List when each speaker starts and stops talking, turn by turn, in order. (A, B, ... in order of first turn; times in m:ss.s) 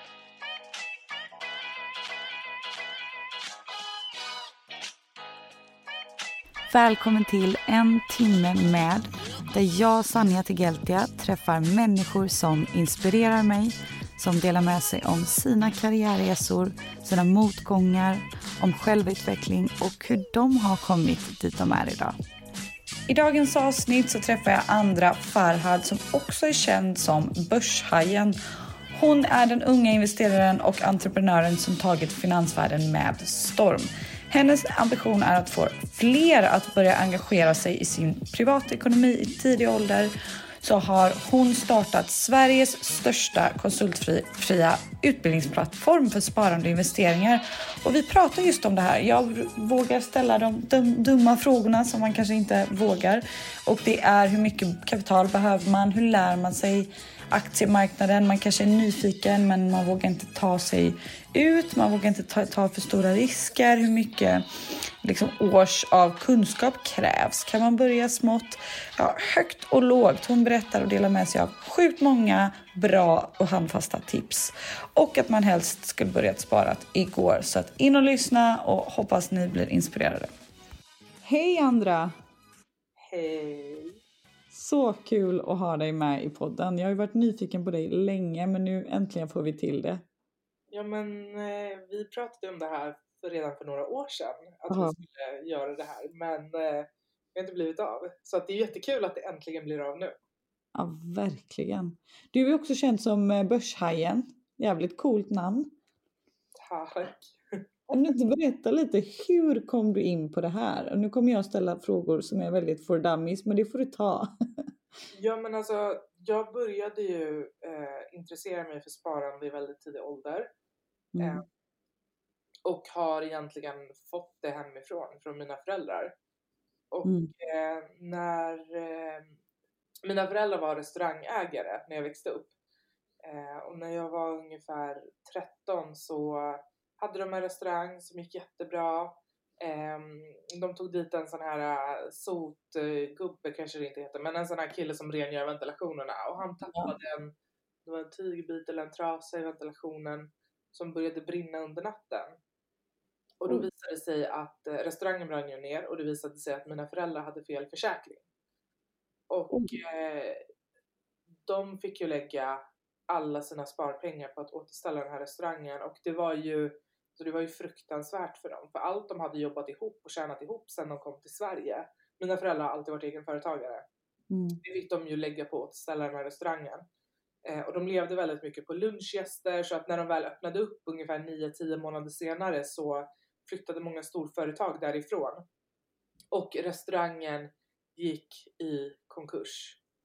0:06.7-0:22.2 A
0:23.1-0:28.4 A
0:28.9-1:20.3 A
1:21.2-1:22.2 A
1:23.0-1:24.0 B
1:24.5-1:30.0 A
1:30.7-1:40.2 B
1:34.7-1:35.0 A
1:40.8-1:45.7 A
1:46.6-1:48.0 B
1:47.9-1:54.3 A
1:55.1-2:00.5 B
2:01.2-2:01.4 A
2:01.2-2:01.4 B
2:02.6-2:06.1 B
2:06.9-2:09.3 B
2:07.0-2:07.3 A
2:10.0-2:12.5 B
2:13.2-2:27.3 B
2:26.6-2:26.9 A
2:27.9-2:32.4 B
2:33.4-2:38.2 B
2:39.3-2:40.4 B
2:41.5-2:53.8 B
2:54.3-2:54.6 A
2:54.6-2:56.8 B
2:57.5-3:05.4 B
3:06.3-3:09.8 B